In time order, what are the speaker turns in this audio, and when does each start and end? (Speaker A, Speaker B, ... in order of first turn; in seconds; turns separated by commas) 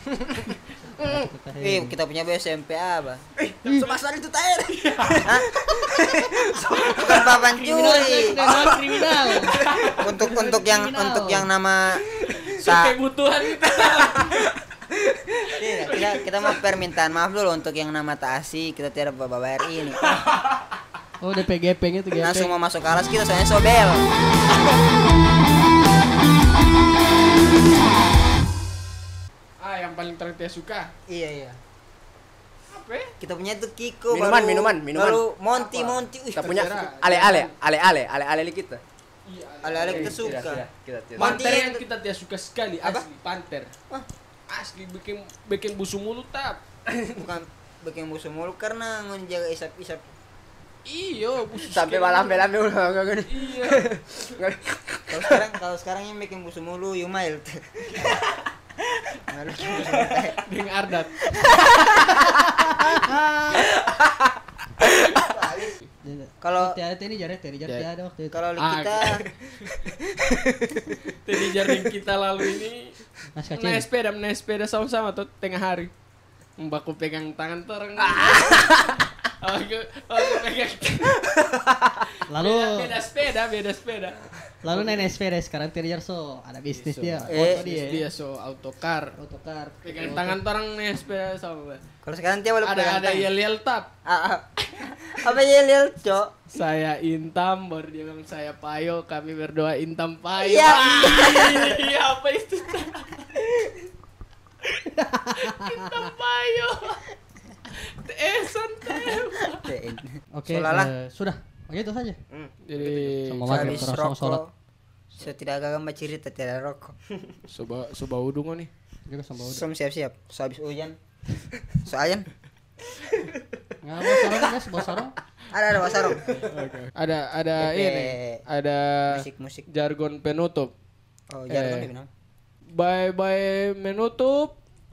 Speaker A: 0.8-1.9, Speaker B: 1.0-1.3, Speaker C: 1.6-3.2, Speaker B: 3.4-7.4, Speaker D: 4.7-5.3, Speaker D: 6.8-7.3, Speaker C: 6.9-8.5, Speaker A: 7.6-11.5, Speaker B: 8.3-9.8, Speaker D: 9.5-10.0, Speaker C: 10.0-12.0, Speaker D: 12.3-14.5, Speaker C: 12.6-12.9, Speaker C: 15.6-20.0, Speaker D: 15.7-16.6, Speaker A: 21.2-22.5, Speaker C: 22.2-24.1, Speaker D: 29.6-30.9, Speaker C: 31.1-31.6, Speaker D: 32.7-33.1, Speaker C: 33.2-36.7, Speaker B: 34.1-35.2, Speaker D: 35.5-37.5, Speaker B: 36.4-38.8, Speaker D: 39.2-40.6, Speaker C: 39.6-40.6, Speaker B: 39.9-41.6, Speaker C: 41.2-41.8, Speaker D: 41.2-43.7, Speaker D: 44.5-46.6, Speaker C: 47.1-50.0, Speaker D: 50.9-52.5, Speaker B: 51.6-55.5, Speaker D: 53.3-54.0, Speaker C: 55.1-58.2, Speaker D: 57.9-58.2, Speaker C: 59.3-60.4, Speaker D: 59.8-61.3, Speaker C: 61.3-61.8, Speaker A: 62.3-63.3, Speaker C: 65.2-65.8, Speaker A: 66.0-68.4, Speaker C: 66.4-66.8, Speaker C: 68.3-69.2, Speaker D: 68.6-69.3, Speaker B: 70.2-70.8, Speaker D: 71.2-73.0, Speaker A: 73.3-73.9, Speaker D: 73.5-75.9, Speaker D: 76.6-81.3, Speaker B: 78.0-79.0, Speaker B: 81.3-82.0, Speaker A: 82.3-83.0, Speaker D: 82.3-85.0, Speaker A: 84.6-88.0, Speaker D: 86.7-89.1, Speaker C: 87.3-87.6, Speaker A: 89.1-90.4, Speaker D: 89.8-91.8, Speaker C: 92.0-93.3, Speaker D: 92.6-93.9, Speaker C: 94.1-96.3, Speaker D: 96.5-103.3, Speaker C: 100.4-101.8, Speaker A: 105.0-106.0, Speaker D: 105.4-107.0, Speaker D: 107.7-109.7, Speaker C: 109.1-110.9, Speaker A: 110.3-112.2, Speaker B: 112.3-113.2, Speaker D: 112.7-114.0, Speaker A: 113.3-114.4, Speaker C: 113.5-114.5, Speaker C: 115.1-116.9, Speaker D: 117.5-118.7, Speaker A: 119.1-119.6, Speaker C: 119.4-121.0, Speaker C: 121.8-122.3, Speaker A: 123.8-125.1, Speaker C: 125.5-126.4, Speaker D: 126.5-130.7, Speaker C: 127.6-128.4, Speaker C: 129.1-129.7, Speaker C: 131.3-132.1, Speaker D: 131.5-131.9, Speaker D: 132.7-134.6